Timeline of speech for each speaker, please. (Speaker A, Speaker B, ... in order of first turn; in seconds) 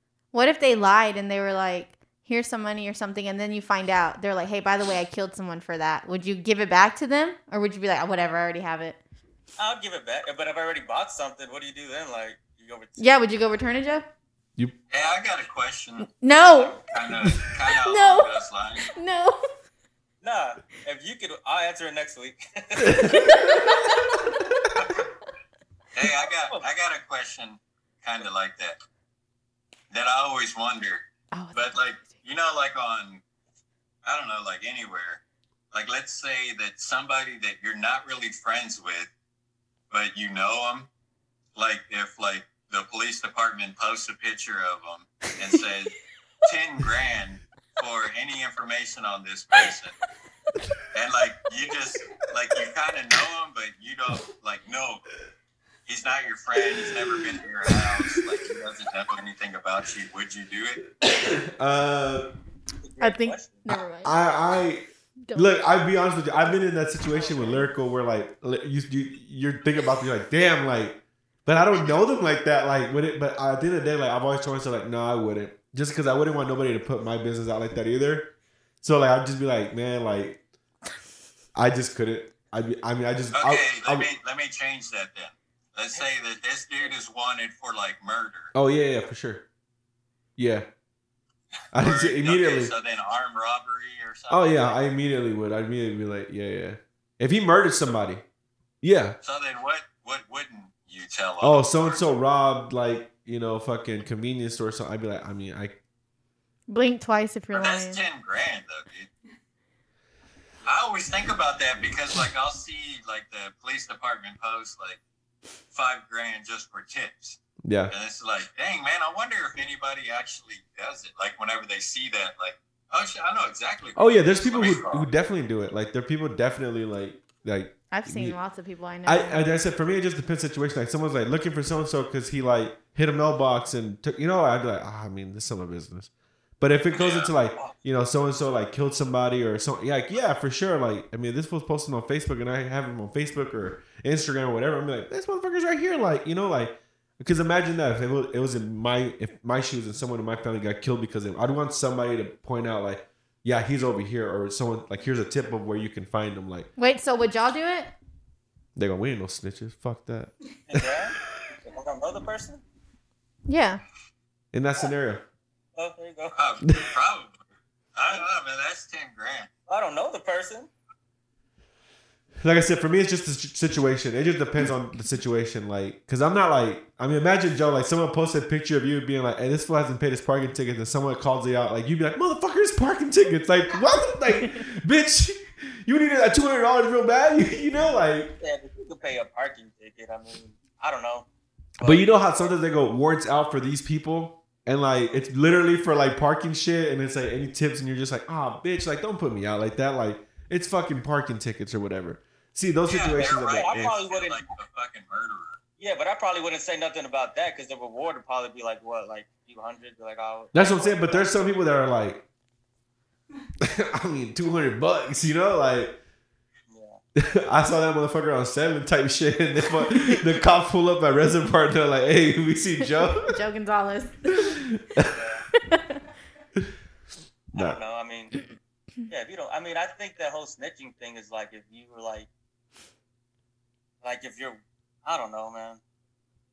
Speaker A: 0.3-9.0, 13.0-14.1, 16.1-16.8, 17.7-19.4, 23.1-23.9, 31.3-31.8, 63.0-64.1, 65.2-65.6, 106.7-108.0, 127.9-129.5, 156.8-157.9, 163.5-163.8, 223.2-224.6, 225.5-226.0
Speaker B: 9.6-13.1, 20.2-23.5, 26.1-26.6, 62.8-63.6, 67.1-67.6, 160.7-162.6, 165.8-166.3, 169.7-170.7, 188.4-191.3, 191.8-192.5, 203.2-204.4, 205.8-211.4, 216.7-217.0, 225.1-225.4, 227.5-228.3, 229.1-232.3, 234.0-235.8
Speaker C: 14.9-18.9, 24.8-25.0, 25.9-28.8, 29.9-33.2, 34.0-35.2, 35.7-39.1, 39.9-40.9, 41.6-50.0, 50.9-55.0, 55.9-60.8, 83.3-88.5, 91.7-94.8, 99.2-102.1, 107.5-109.1, 110.7-115.0, 115.7-117.4, 117.9-125.1, 136.9-137.3, 166.3-167.4, 167.9-169.5, 202.9-205.6
Speaker D: 22.9-23.3, 61.0-62.3, 64.0-80.4, 81.5-84.1, 88.5-89.5, 90.4-90.7, 91.7-92.7, 94.3-98.2, 98.8-99.2, 101.4-105.8, 117.6-117.9, 124.0-128.4, 129.1-156.7, 158.8-160.9, 164.5-165.2, 166.7-166.9, 172.4-188.3, 191.8-204.0, 210.5-212.3, 213.6-216.0, 217.2-223.4, 224.8-225.2, 227.5-227.8